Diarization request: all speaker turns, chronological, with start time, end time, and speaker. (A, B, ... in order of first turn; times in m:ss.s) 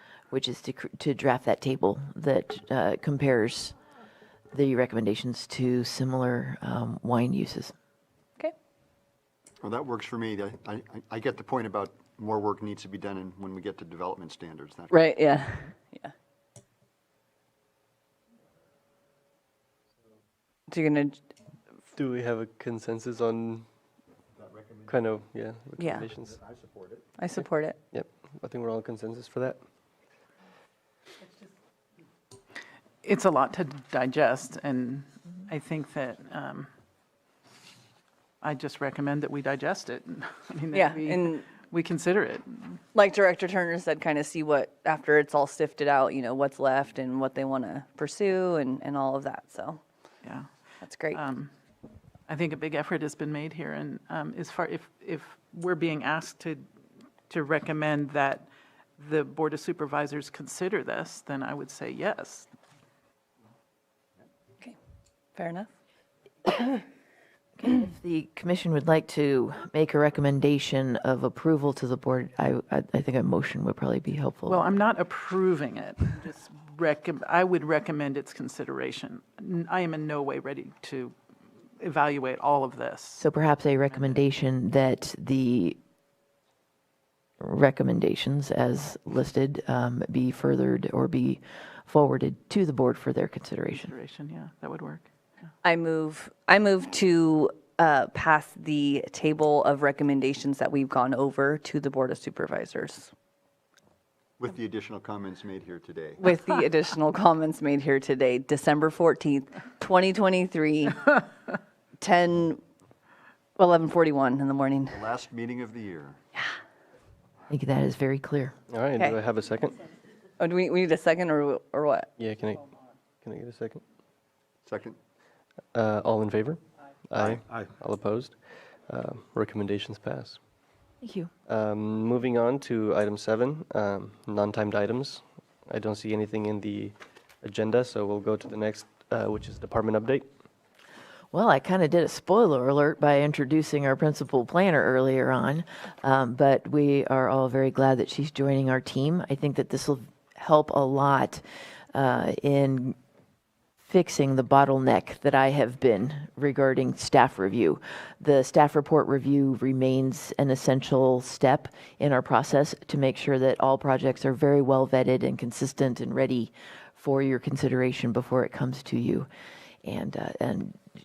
0:00.3-0:03.8 A
0:04.5-0:07.7 A
0:09.6-0:15.0 B
0:14.9-0:16.1 C
0:20.7-0:21.2 C
0:21.9-0:23.7 D
0:24.4-0:24.9 B
0:24.9-0:26.4 D
0:25.8-0:26.1 C
0:26.4-0:27.0 B
0:27.2-0:27.8 C
0:27.4-0:29.6 D
0:33.0-0:36.7 E
0:38.4-0:42.8 E
0:40.7-0:41.5 C
0:42.9-0:49.8 C
0:50.2-0:50.5 E
0:50.8-0:51.2 C
0:51.1-0:51.5 E
0:52.3-0:56.7 E
0:57.3-0:58.5 E
0:59.0-1:02.5 E
1:05.4-1:05.7 C
1:07.6-1:14.6 A
1:14.5-1:21.2 E
1:21.8-1:23.2 E
1:23.2-1:25.8 A
1:27.4-1:33.9 A
1:33.8-1:35.1 E
1:35.6-1:43.1 C
1:44.4-1:46.2 B
1:46.2-1:51.0 C
1:52.0-1:52.6 C
1:53.6-1:55.0 C
1:54.9-1:56.2 B
1:57.5-1:58.5 A
1:58.7-1:59.8 D
2:00.4-2:02.1 C
2:02.2-2:02.7 D
2:03.2-2:03.8 D
2:04.6-2:05.0 B
2:05.7-2:08.4 D
2:07.2-2:07.7 B
2:08.9-2:10.4 D
2:11.0-2:11.3 A
2:11.5-2:20.3 D
2:21.3-2:31.4 A
2:31.9-2:33.0 A
2:33.8-2:49.3 A
2:49.8-2:50.8 A